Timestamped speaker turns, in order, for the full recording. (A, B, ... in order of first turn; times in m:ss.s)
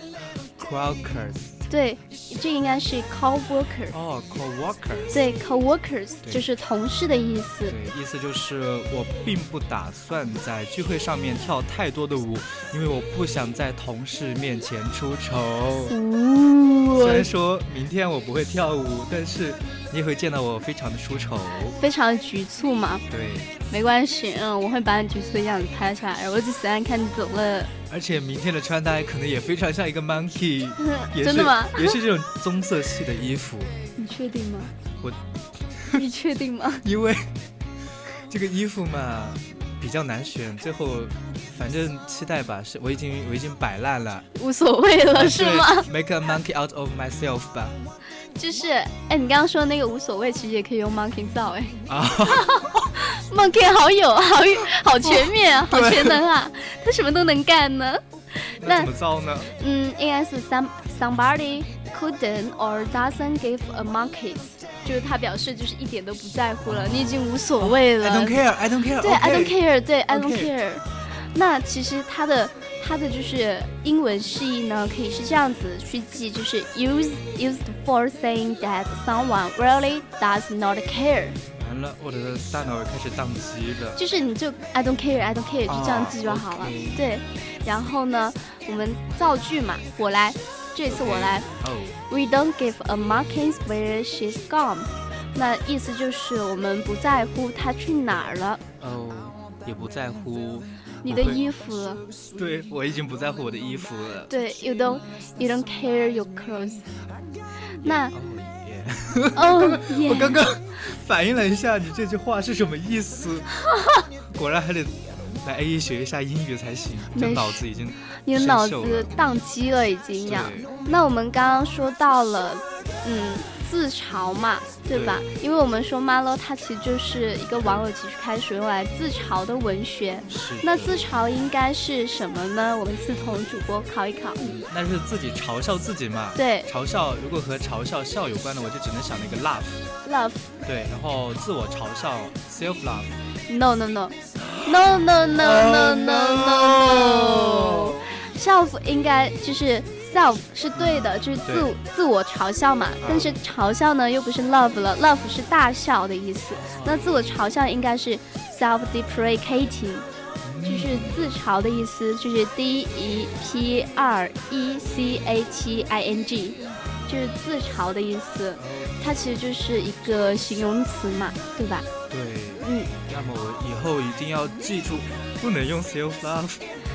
0:00.4-0:01.6 A
0:01.7-0:04.0 B
0:03.9-0:05.3 A
0:05.1-0:07.8 B
0:07.7-0:16.0 A
0:15.8-0:17.3 B
0:16.9-0:21.8 A
0:21.8-0:23.0 B
0:23.1-0:23.5 A
0:23.7-0:27.7 B
0:27.9-0:33.7 A
0:30.8-0:32.0 B
0:34.0-0:34.7 B
0:35.8-0:36.0 A
0:35.9-0:36.8 B
0:36.8-0:37.3 A
0:38.1-0:44.3 A
0:44.4-0:45.9 B
0:45.1-0:47.8 A
0:48.4-0:58.9 B
0:51.9-0:52.9 A
0:55.0-0:56.2 A
0:58.6-0:59.5 A
0:59.5-1:08.4 B
1:06.6-1:10.5 A
1:09.0-1:21.4 B
1:21.6-1:24.0 A
1:24.0-1:31.5 B
1:25.7-1:27.0 A
1:30.9-1:32.0 A
1:32.1-1:38.6 B
1:38.8-1:41.4 A
1:41.0-1:42.0 B
1:42.3-1:44.3 A
1:44.3-1:46.9 B
1:47.8-1:48.1 B
1:47.8-1:53.5 A
1:49.4-1:50.5 B
1:54.3-1:59.1 A
1:57.1-1:57.6 B
1:58.2-2:14.7 B
2:00.2-2:00.7 A
2:04.9-2:05.3 A
2:07.6-2:07.8 A
2:10.3-2:11.0 A
2:14.4-2:19.8 A
2:16.4-2:16.7 B
2:20.0-2:20.5 B
2:20.6-2:23.2 A
2:23.5-2:40.1 B
2:24.4-2:28.1 A
2:30.8-2:31.7 A
2:33.0-2:33.4 A
2:36.5-2:37.4 A
2:40.4-2:41.3 A
2:40.6-2:51.9 B
2:48.6-2:49.0 A
2:52.1-2:56.6 A
2:52.6-2:52.9 B